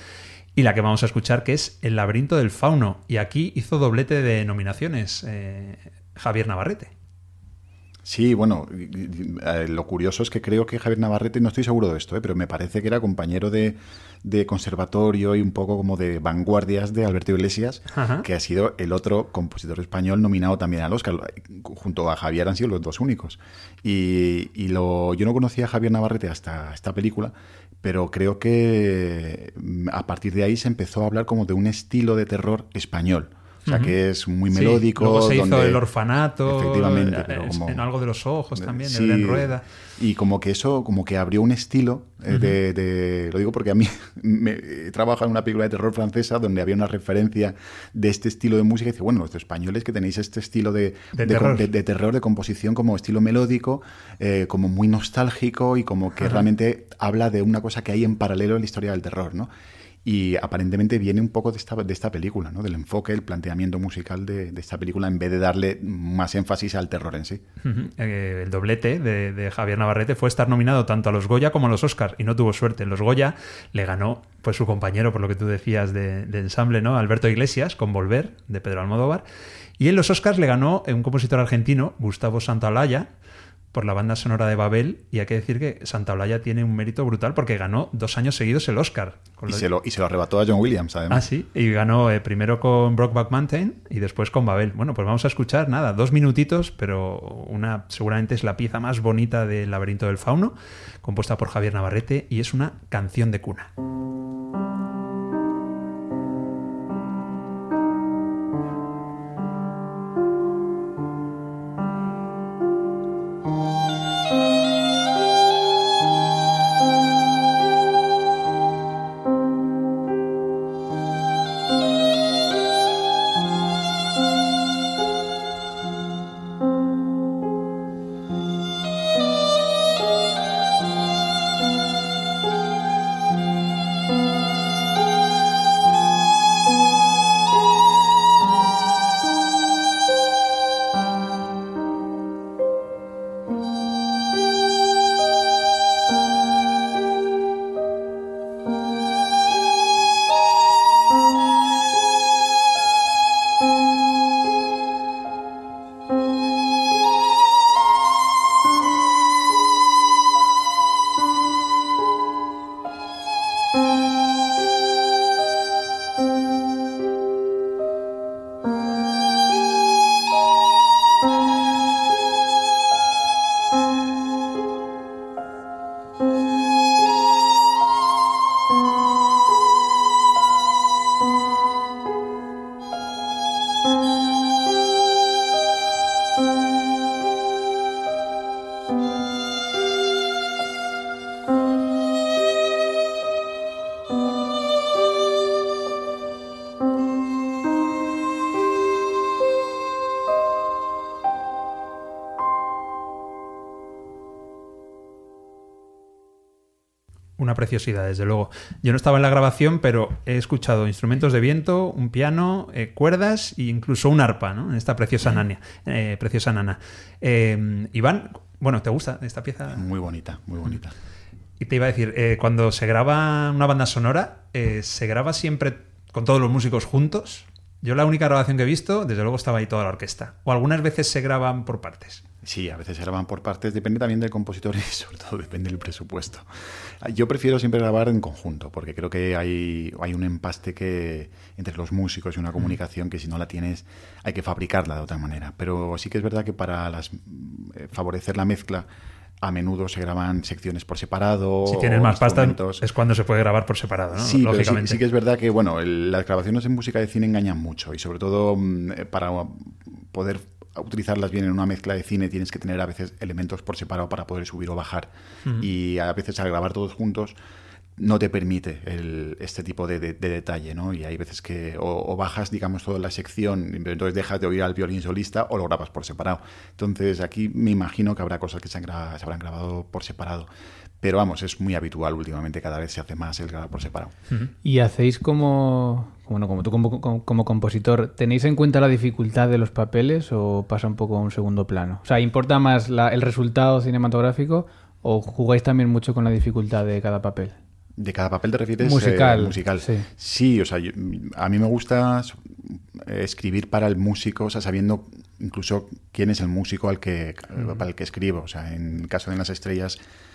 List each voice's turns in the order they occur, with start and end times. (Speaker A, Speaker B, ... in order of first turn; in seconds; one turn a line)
Speaker A: 0.6-6.9
Speaker B: 8.0-35.8
Speaker A: 17.9-18.2
Speaker A: 33.6-34.0
Speaker A: 34.5-39.6
Speaker B: 36.4-37.8
Speaker B: 38.5-59.5
Speaker A: 42.3-42.6
Speaker A: 51.1-51.7
Speaker B: 60.0-67.4
Speaker A: 67.6-79.2
Speaker A: 79.8-83.1
Speaker A: 83.7-89.7
Speaker B: 89.5-91.2
Speaker A: 91.1-103.7
Speaker A: 207.4-219.8
Speaker B: 219.7-220.9
Speaker A: 221.6-232.2
Speaker B: 232.4-248.9
Speaker B: 249.4-252.8
Speaker A: 251.7-255.0
Speaker B: 254.1-267.4
Speaker B: 268.0-280.5
Speaker B: 281.0-284.1
Speaker C: 284.6-297.5
Speaker B: 298.0-310.0
Speaker C: 298.8-300.1